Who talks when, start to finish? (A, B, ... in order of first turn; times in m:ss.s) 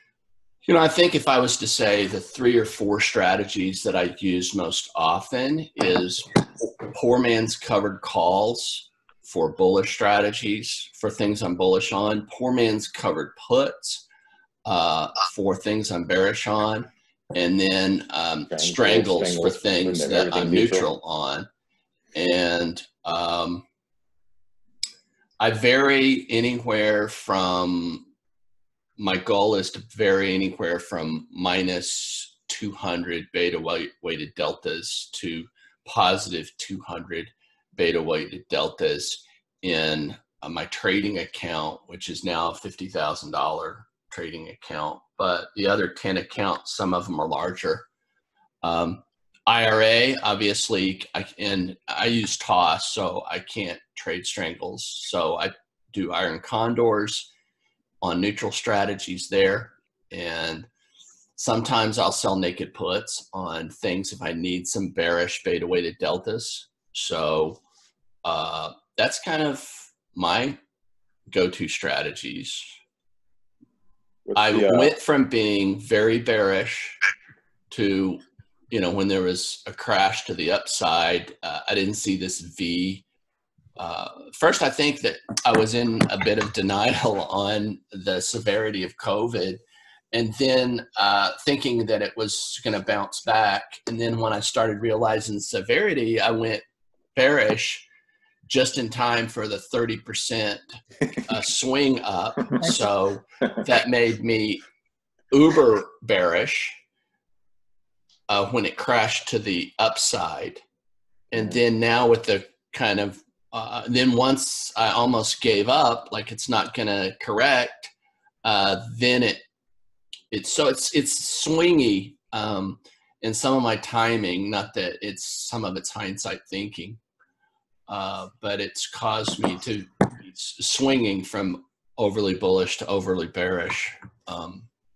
0:00.6-0:14.0 A
0:14.6-0:21.5 A
0:18.5-0:20.9 B
0:22.1-0:23.6 A
0:25.4-0:28.1 A
0:29.0-0:47.9 A
0:48.6-0:57.3 A
0:58.0-1:00.7 A
1:01.4-1:07.6 A
1:08.2-1:10.6 A
1:11.3-1:12.7 A
1:14.2-1:14.9 B
1:14.4-1:17.0 A
1:17.7-1:23.0 A
1:23.8-1:29.6 A
1:30.1-1:36.6 A
1:37.1-1:37.9 A
1:38.5-1:40.6 A
1:41.2-1:44.6 A
1:45.3-1:46.8 A
1:48.3-1:50.6 A
1:51.3-1:57.9 A
1:51.3-1:51.6 B
1:58.4-1:59.4 A
2:00.3-2:07.0 A
2:07.9-2:14.7 A